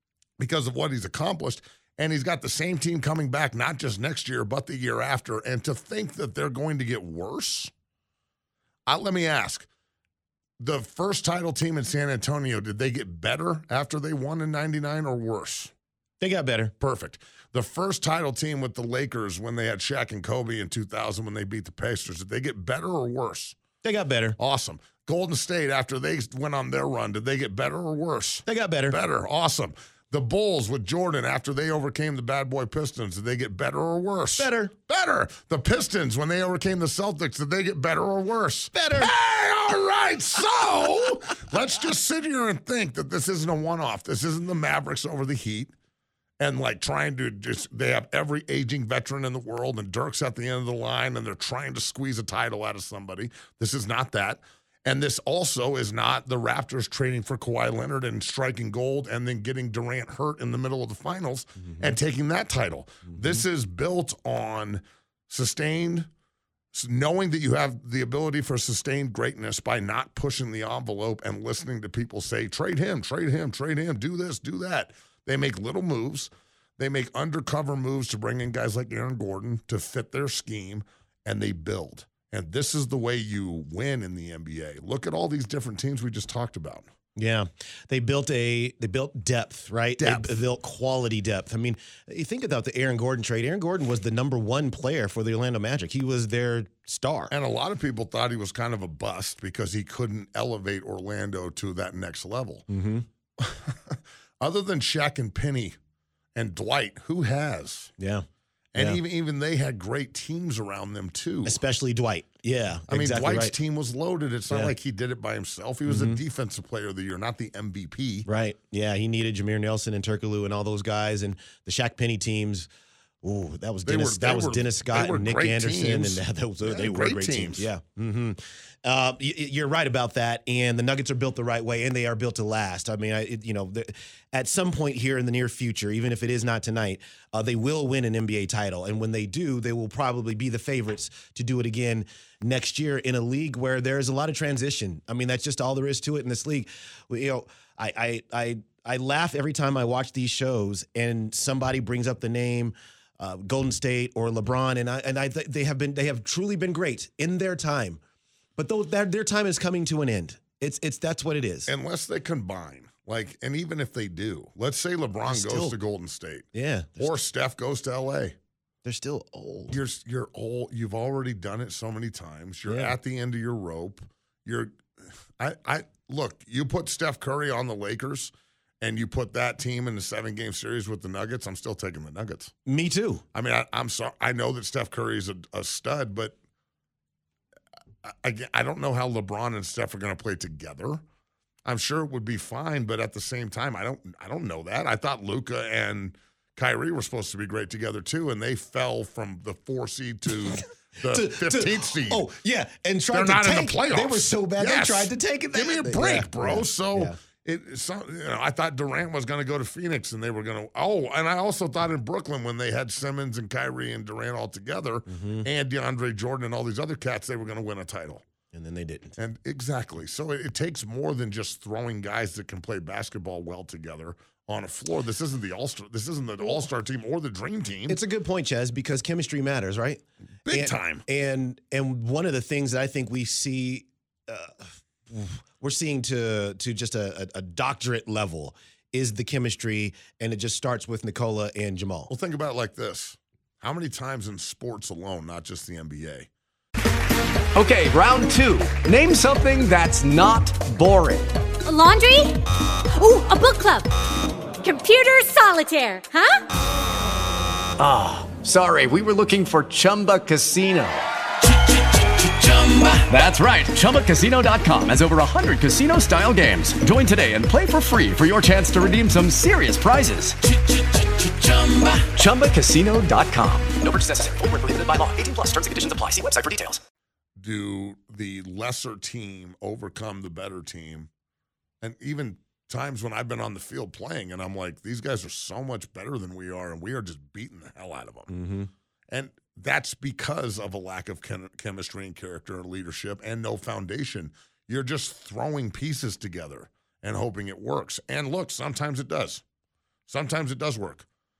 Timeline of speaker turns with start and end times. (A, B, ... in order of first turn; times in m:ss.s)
0:00.4-0:07.7 A
0:08.9-0:09.7 A
0:10.6-0:15.7 A
0:16.2-0:16.7 B
0:16.8-0:23.6 A
0:23.8-0:24.4 B
0:24.4-0:45.7 A
0:28.5-0:29.0 B
0:34.4-0:34.7 B
0:38.7-0:39.1 B
0:46.4-1:06.1 A
1:01.6-1:01.9 B
1:03.1-1:03.4 B
1:06.7-1:26.9 A
1:27.2-1:37.3 B
1:30.0-1:30.4 A
1:37.3-1:42.7 A
1:42.7-1:43.1 B
1:43.4-1:45.8 A
1:46.4-1:47.9 A
1:48.0-1:48.2 B
1:48.7-1:51.6 A
1:51.4-1:53.6 B
1:52.9-1:58.3 A
1:54.5-1:54.7 B
1:55.9-1:56.2 B
1:58.3-2:02.7 B
2:03.2-2:38.0 B
2:03.8-2:07.7 A
2:38.6-2:41.7 B
2:41.7-2:46.5 A
2:45.3-2:45.8 B
2:46.5-2:47.1 B
2:47.0-2:48.4 A
2:48.8-2:49.8 B
2:49.7-2:54.8 A
2:52.7-2:53.0 B
2:55.4-3:02.5 A
3:02.7-3:03.2 B
3:03.3-3:06.4 A
3:08.0-3:11.0 A
3:11.6-3:22.3 A
3:21.0-3:27.2 B
3:23.1-3:38.2 A
3:35.1-3:35.5 B
3:38.5-3:39.2 B
3:39.2-3:48.0 A
3:47.9-4:02.1 B
3:50.5-3:51.0 A
4:02.1-4:06.3 A
4:07.6-4:11.3 C
4:11.7-4:12.4 D
4:13.0-4:13.9 D
4:14.6-4:16.4 D
4:17.8-4:21.1 C
4:22.4-4:30.4 C
4:31.4-4:36.8 C
4:37.4-4:41.1 A
4:41.8-4:48.3 A
4:48.3-4:48.7 B
4:49.1-4:59.4 A
5:00.1-5:01.1 A